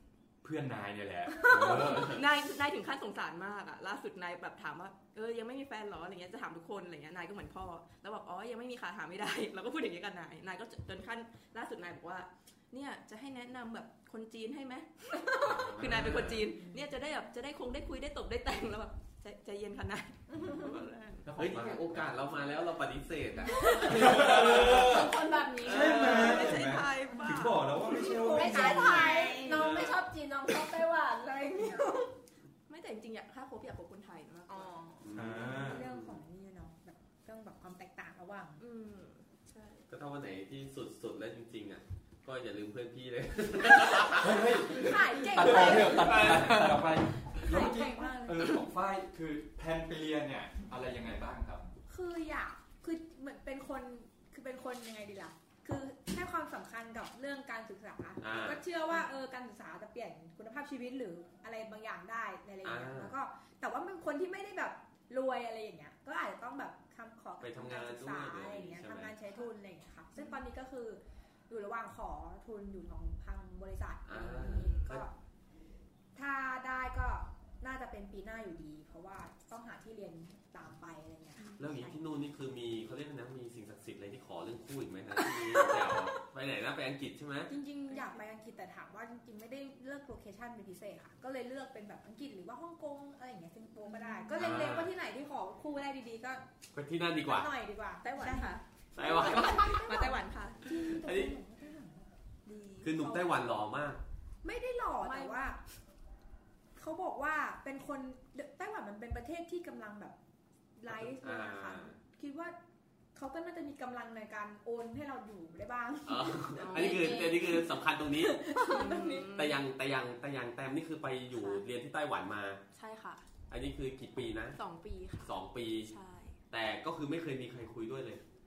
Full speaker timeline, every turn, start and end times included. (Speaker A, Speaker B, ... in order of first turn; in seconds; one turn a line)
Speaker A: 0.4-2.2
Speaker B: 1.4-21.2
Speaker C: 1.8-2.2
Speaker C: 15.4-16.5
Speaker A: 15.8-16.4
Speaker A: 21.2-22.1
Speaker C: 21.4-26.6
Speaker B: 23.4-24.2
Speaker D: 23.5-26.4
Speaker A: 23.9-29.2
Speaker B: 25.6-27.8
Speaker D: 27.9-32.1
Speaker E: 28.4-29.6
Speaker B: 28.4-29.6
Speaker C: 29.4-30.0
Speaker B: 32.7-34.7
Speaker D: 34.5-35.0
Speaker C: 35.0-36.2
Speaker A: 35.1-35.9
Speaker E: 35.3-38.6
Speaker B: 38.6-39.9
Speaker C: 39.9-44.4
Speaker A: 44.1-51.6
Speaker E: 44.6-46.6
Speaker C: 45.3-47.0
Speaker E: 47.4-48.6
Speaker E: 51.9-75.1
Speaker C: 58.2-58.6
Speaker C: 62.6-63.1
Speaker C: 67.4-69.1
Speaker C: 74.1-75.0
Speaker B: 74.3-74.9
Speaker E: 76.2-81.9
Speaker B: 81.4-81.7
Speaker C: 81.6-87.5
Speaker E: 87.5-96.4
Speaker B: 93.9-94.4
Speaker C: 94.3-94.9
Speaker C: 96.7-97.5
Speaker E: 97.2-102.1
Speaker B: 98.0-100.7
Speaker C: 99.0-99.8
Speaker C: 100.7-101.4
Speaker B: 102.5-102.9
Speaker E: 102.7-103.4
Speaker C: 102.8-104.0
Speaker E: 104.4-105.6
Speaker B: 105.0-105.6
Speaker E: 106.8-110.2
Speaker E: 110.8-112.6
Speaker C: 110.9-112.0
Speaker E: 113.2-119.4
Speaker C: 116.1-118.4
Speaker B: 116.6-117.5
Speaker B: 118.7-119.6
Speaker C: 119.3-122.6
Speaker B: 121.3-121.6
Speaker B: 122.7-123.3
Speaker C: 123.5-124.6
Speaker B: 124.6-126.3
Speaker C: 125.2-126.0
Speaker C: 126.5-128.2